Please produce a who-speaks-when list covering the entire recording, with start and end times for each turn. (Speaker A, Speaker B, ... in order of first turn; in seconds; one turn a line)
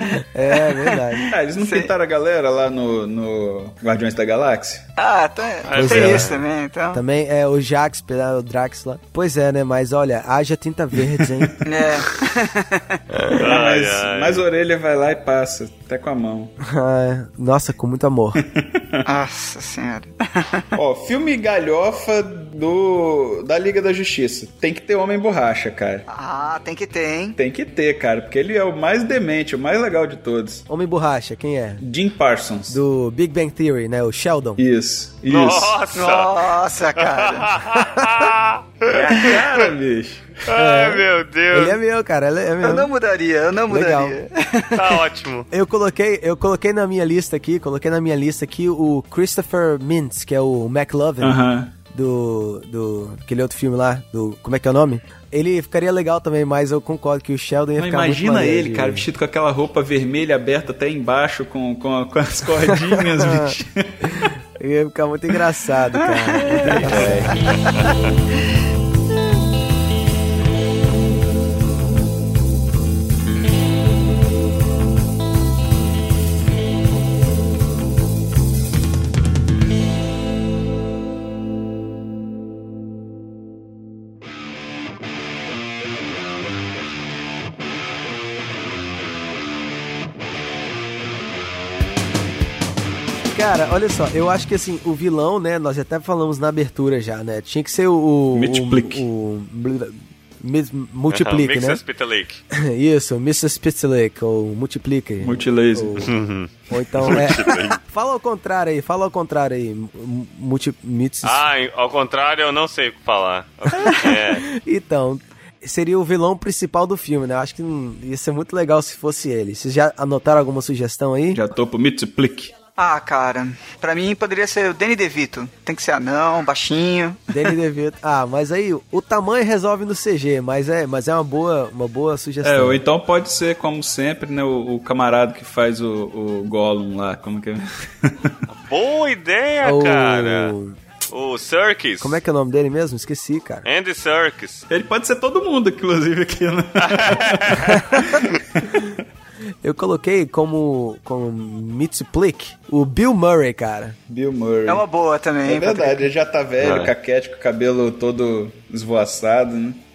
Speaker A: 0.3-1.3
Speaker B: 0.5-1.9
Speaker C: 1.3-4.9
Speaker B: 5.0-7.0
Speaker D: 5.7-6.4
Speaker A: 5.8-6.2
Speaker A: 6.9-11.5
Speaker B: 11.6-12.9
Speaker D: 13.3-14.4
Speaker C: 13.3-16.5
Speaker A: 16.6-18.4
Speaker C: 18.5-19.0
Speaker B: 19.1-20.6
Speaker C: 20.7-26.1
Speaker B: 26.1-27.4
Speaker C: 27.4-30.6
Speaker A: 30.7-31.8
Speaker C: 31.8-32.8
Speaker A: 32.7-34.6
Speaker C: 34.6-35.8
Speaker D: 35.3-39.6
Speaker B: 35.9-37.6
Speaker C: 38.9-40.4
Speaker D: 40.5-41.8
Speaker A: 40.5-42.9
Speaker B: 42.6-45.0
Speaker A: 43.7-44.1
Speaker D: 44.7-45.5
Speaker A: 45.5-51.4
Speaker C: 51.2-51.7
Speaker A: 51.9-59.0
Speaker C: 57.8-64.3
Speaker A: 63.1-63.5
Speaker A: 64.1-67.3
Speaker B: 66.3-67.8
Speaker C: 66.8-67.4
Speaker A: 93.3-101.8
Speaker C: 98.3-99.0
Speaker D: 101.1-102.4
Speaker A: 102.5-106.1
Speaker C: 105.2-106.1
Speaker D: 106.0-107.8
Speaker A: 106.7-111.4
Speaker D: 111.2-114.4
Speaker A: 114.4-121.4
Speaker C: 121.3-122.5
Speaker B: 122.8-127.5
Speaker A: 127.3-132.8
Speaker C: 132.4-138.3
Speaker D: 138.5-140.5
Speaker A: 139.6-140.8
Speaker D: 141.1-142.2
Speaker A: 142.0-143.6
Speaker D: 143.6-144.6
Speaker C: 144.7-148.9
Speaker D: 146.8-147.9
Speaker A: 149.6-153.9
Speaker C: 154.1-154.8
Speaker B: 154.7-156.1
Speaker C: 155.4-159.8
Speaker D: 156.6-156.9